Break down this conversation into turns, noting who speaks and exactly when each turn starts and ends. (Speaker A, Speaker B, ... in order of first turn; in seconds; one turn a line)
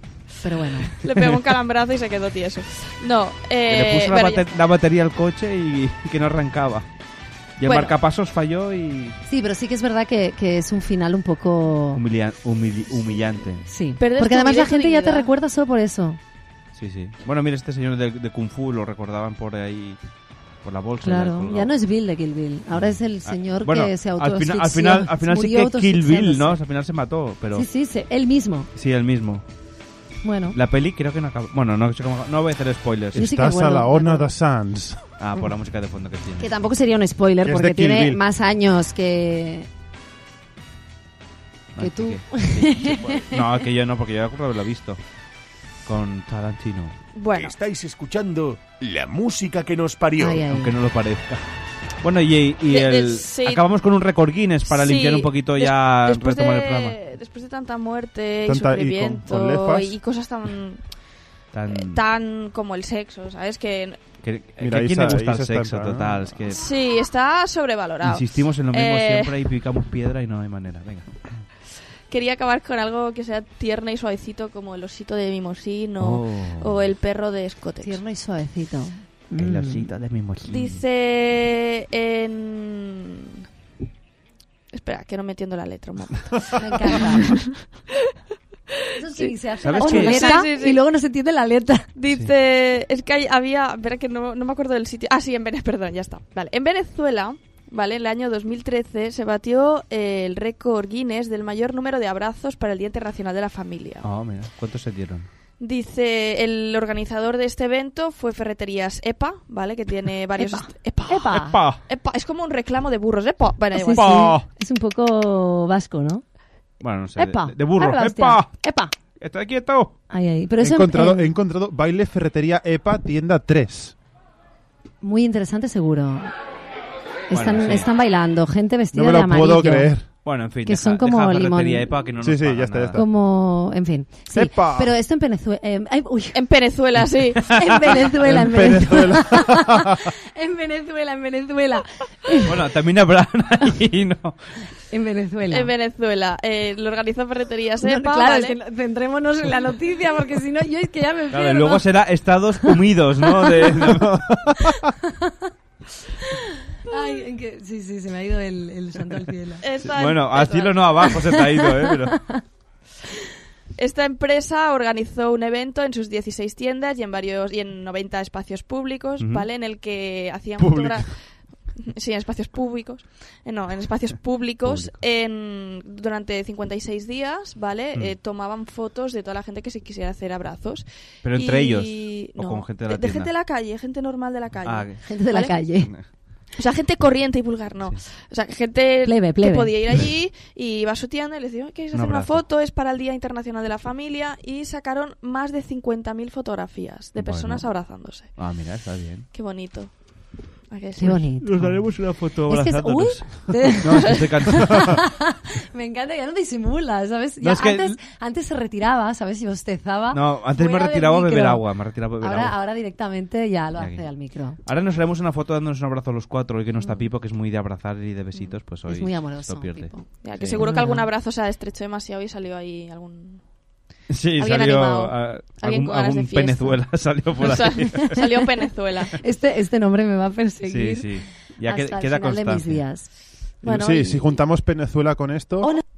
Speaker A: 0.4-0.9
Speaker B: 1.0-4.6
Speaker C: 1.1-1.5
Speaker C: 3.7-6.9
Speaker C: 7.6-9.2
Speaker A: 7.7-7.9
Speaker A: 9.3-12.0
Speaker C: 11.9-13.7
Speaker A: 13.7-16.2
Speaker B: 14.0-15.3
Speaker C: 16.7-20.0
Speaker C: 20.6-21.7
Speaker A: 21.0-26.6
Speaker C: 22.7-27.7
Speaker A: 27.5-28.7
Speaker C: 28.7-29.4
Speaker A: 30.2-30.6
Speaker C: 30.5-33.2
Speaker D: 33.1-35.0
Speaker A: 33.1-34.3
Speaker C: 35.2-36.5
Speaker A: 36.4-39.7
Speaker D: 37.4-38.2
Speaker C: 41.7-45.0
Speaker A: 41.8-43.4
Speaker C: 45.9-47.0
Speaker B: 47.1-47.5
Speaker E: 47.4-50.5
Speaker A: 50.2-50.7
Speaker C: 50.5-51.4
Speaker C: 52.0-57.0
Speaker B: 52.6-53.6
Speaker B: 54.6-60.8
Speaker D: 58.5-59.9
Speaker C: 61.5-62.0
Speaker B: 61.7-64.0
Speaker C: 64.2-66.6
Speaker D: 64.6-66.4
Speaker B: 66.5-69.3
Speaker C: 68.0-71.2
Speaker B: 72.1-78.0
Speaker C: 76.0-76.9
Speaker A: 77.8-79.9
Speaker C: 79.4-80.8
Speaker B: 80.4-83.4
Speaker B: 84.7-87.5
Speaker A: 86.5-87.3
Speaker A: 89.0-91.9
Speaker B: 89.1-90.8
Speaker C: 89.6-90.4
Speaker B: 91.9-104.1
Speaker C: 104.0-105.3
Speaker B: 105.6-114.4
Speaker A: 110.4-111.6
Speaker C: 111.3-111.8
Speaker A: 113.8-116.2
Speaker C: 113.9-114.5
Speaker C: 116.8-118.6
Speaker A: 117.2-118.9
Speaker C: 119.2-119.9
Speaker A: 120.1-121.3
Speaker D: 120.6-123.9
Speaker A: 125.0-126.3
Speaker A: 127.3-129.9
Speaker C: 127.3-127.9
Speaker D: 128.9-130.1
Speaker C: 130.2-133.0
Speaker A: 130.6-131.9
Speaker D: 132.2-133.1
Speaker A: 132.9-136.4
Speaker D: 134.3-134.9
Speaker B: 136.3-137.4
Speaker A: 137.4-142.5
Speaker D: 138.3-140.0
Speaker C: 142.4-144.4
Speaker A: 144.9-145.7
Speaker B: 145.5-148.6
Speaker A: 147.8-151.8
Speaker C: 151.3-154.5
Speaker A: 156.3-159.6
Speaker B: 159.6-161.4
Speaker C: 159.8-162.3
Speaker B: 163.8-185.6
Speaker C: 169.2-169.5
Speaker C: 170.6-171.1
Speaker C: 174.6-175.0
Speaker C: 181.2-183.3
Speaker C: 184.6-186.1
Speaker A: 185.0-185.9
Speaker B: 186.6-198.4
Speaker A: 189.0-189.8
Speaker C: 191.9-192.4
Speaker C: 197.2-197.7
Speaker C: 198.3-199.2
Speaker B: 199.3-201.3
Speaker A: 200.9-201.8
Speaker C: 201.1-205.0
Speaker A: 202.5-211.6
Speaker C: 207.4-208.0
Speaker C: 210.1-212.6
Speaker B: 210.7-211.0
Speaker A: 212.2-214.6
Speaker C: 213.8-220.6
Speaker A: 218.9-221.1
Speaker B: 220.1-223.5
Speaker C: 224.1-228.3
Speaker B: 224.3-229.2
Speaker A: 229.2-231.1
Speaker C: 230.7-232.8
Speaker A: 231.6-234.2
Speaker D: 233.6-235.7
Speaker B: 233.7-234.3